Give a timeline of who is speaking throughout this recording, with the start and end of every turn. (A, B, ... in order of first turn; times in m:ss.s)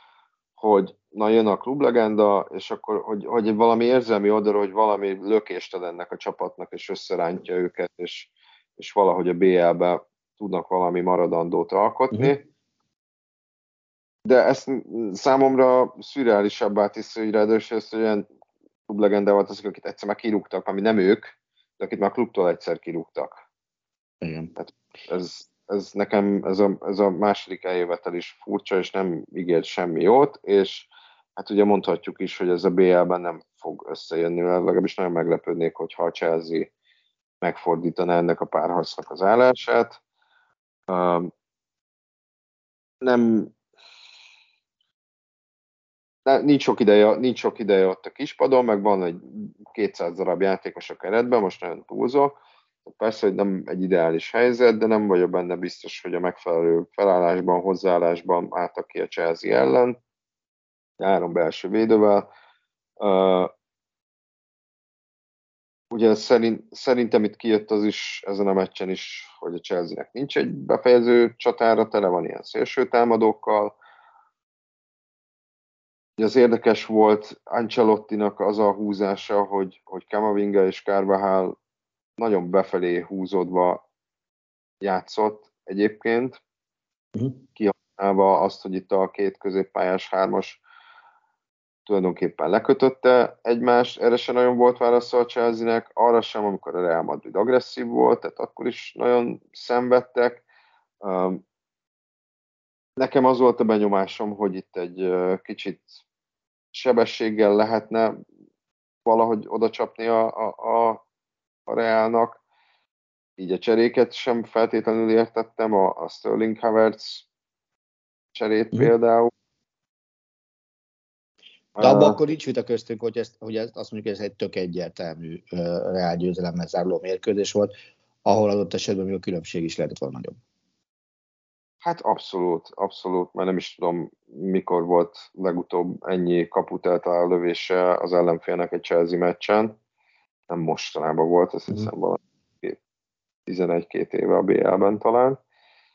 0:00.6-0:12.4 A
0:14.2-0:18.2 A
0:18.9-0:23.4 A
0:24.2-0:24.5 B
0:24.6-0:36.7 A
0:37.4-0:40.0 A
0:40.9-0:41.3 A
0:43.0-0:43.5 A
0:46.2-1:00.0 A
1:01.0-1:02.3 A
1:03.0-1:03.5 A
1:05.9-1:13.8 A
1:16.2-1:21.6 A
1:22.2-1:23.8 A
1:24.8-1:26.4 A
1:27.1-1:27.4 B
1:27.6-1:30.6 A
1:31.8-1:40.4 A
1:41.0-1:41.4 A
1:43.0-1:45.9 A
1:46.7-1:48.2 A
1:49.0-1:51.0 A
1:51.7-1:52.4 A
1:53.4-1:57.2 A
1:58.3-1:59.3 A
2:01.8-2:02.2 A
2:01.8-2:07.7 B
2:08.2-2:10.4 B
2:11.8-2:19.8 A
2:20.5-2:22.8 A
2:23.5-2:25.4 A